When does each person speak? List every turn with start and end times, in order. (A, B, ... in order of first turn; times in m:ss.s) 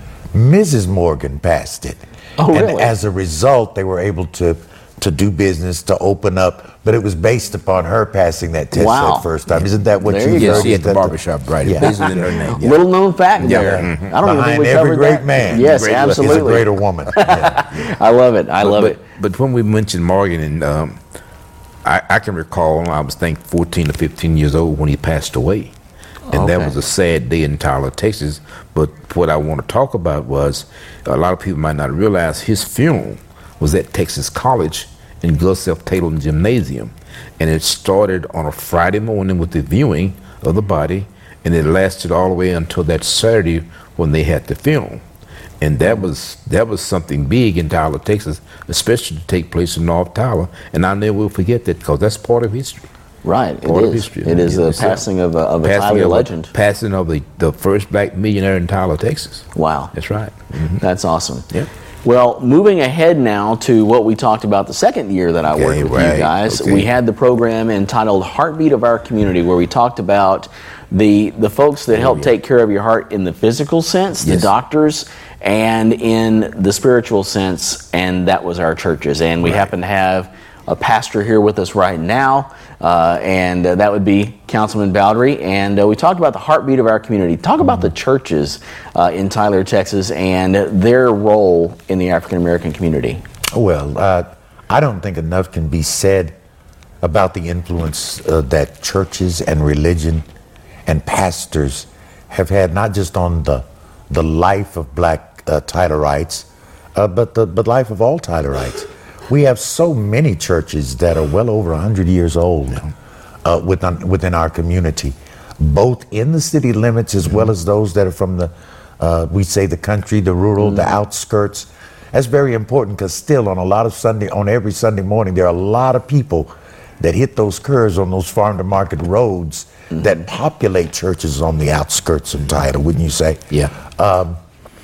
0:00.3-0:11.9 A
0:02.4-0:02.9 B
0:08.7-0:09.3 B
0:10.0-0:10.7 B
0:10.3-0:12.8 C
0:11.8-0:19.0 B
0:13.4-0:14.1 C
0:13.4-0:17.6 A
0:15.5-0:16.7 C
0:18.6-0:21.0 C
0:21.8-0:25.7 C
0:26.3-0:26.8 B
0:26.3-0:45.0 C
0:45.6-0:52.9 C
0:53.2-0:56.5 B
0:53.6-0:55.0 C
0:55.6-1:00.8 C
0:59.5-0:59.9 B
1:00.8-1:01.4 B
1:02.0-1:33.2 B
1:05.5-1:06.9 C
1:14.2-1:14.5 C
1:33.5-1:36.3 A
1:37.0-1:40.2 A
1:40.9-1:52.9 A
1:53.4-2:14.4 A